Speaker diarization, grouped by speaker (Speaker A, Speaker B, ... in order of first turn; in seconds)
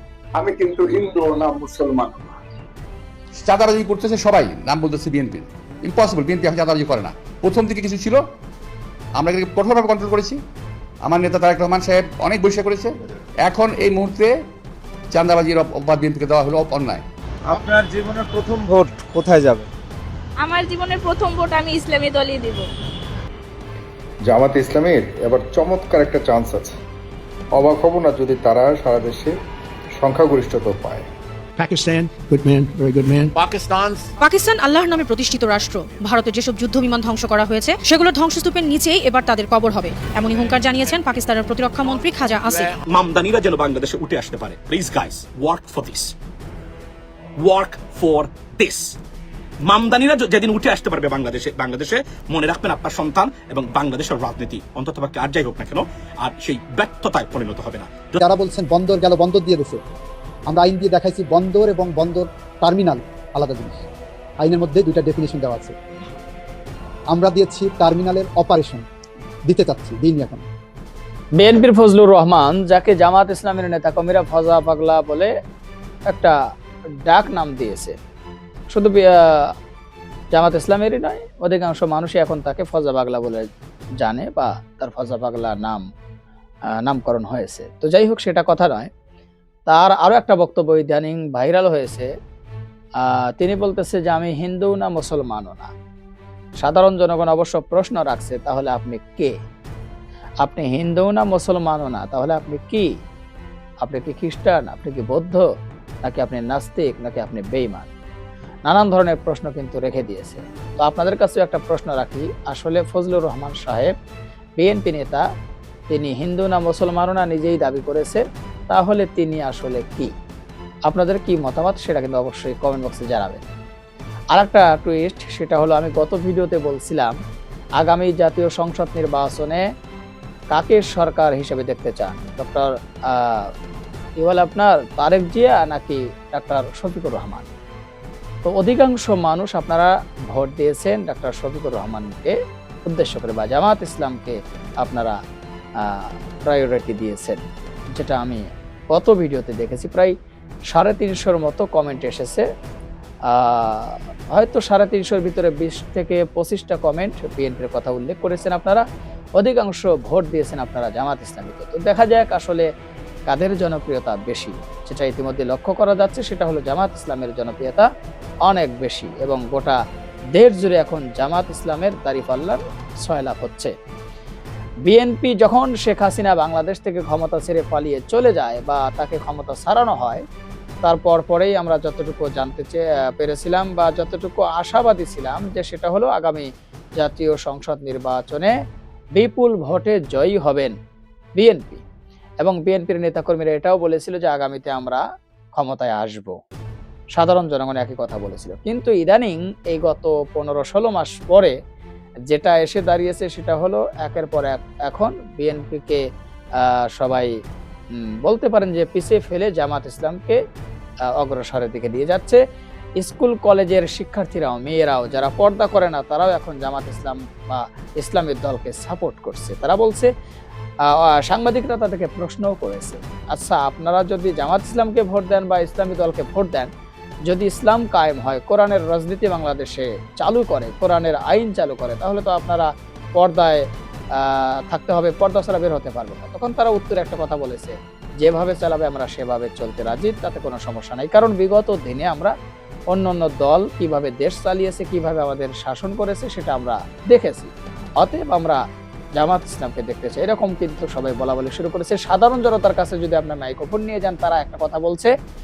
Speaker A: 0.3-2.3
Speaker B: 3.4-8.2, 9.2-10.4, 11.0-14.3, 15.1-17.0
Speaker C: 17.5-19.7
Speaker D: 20.4-22.7
Speaker E: 24.2-26.7, 27.5-29.4, 30.0-31.1
Speaker F: 31.6-34.0
Speaker G: 34.2-42.8
Speaker H: 42.9-46.1, 47.4-49.0, 49.6-58.2
Speaker I: 58.2-59.8, 60.5-63.8, 64.4-65.7, 67.1-68.8, 69.5-70.5
Speaker J: 71.4-75.3, 77.1-78.0, 78.7-79.5, 80.3-83.5, 84.0-85.8, 86.8-88.9, 89.7-92.1, 93.0-95.7, 96.6-99.3, 100.4-102.9, 103.8-105.5, 106.0-107.9, 108.7-113.9, 114.6-115.2, 115.9-120.1, 120.9-123.4, 124.3-127.1, 127.8-129.6, 130.5-133.5, 134.2-137.5, 138.5-145.2, 145.8-147.4, 147.9-148.4, 148.9-150.1, 150.7-152.4, 153.3-158.8, 159.4-162.7, 163.3-167.9, 168.5-169.8, 170.3-173.7, 174.9-180.2, 180.8-186.5, 187.0-188.5, 189.2-190.8, 191.4-191.8, 192.4-195.0, 195.6-196.4, 197.1-201.5, 202.3-206.0, 206.6-207.3, 208.2-210.4, 211.2-212.4, 213.0-220.1, 220.9-226.7, 227.3-233.7, 234.2-242.3, 242.9-248.6, 249.2-255.1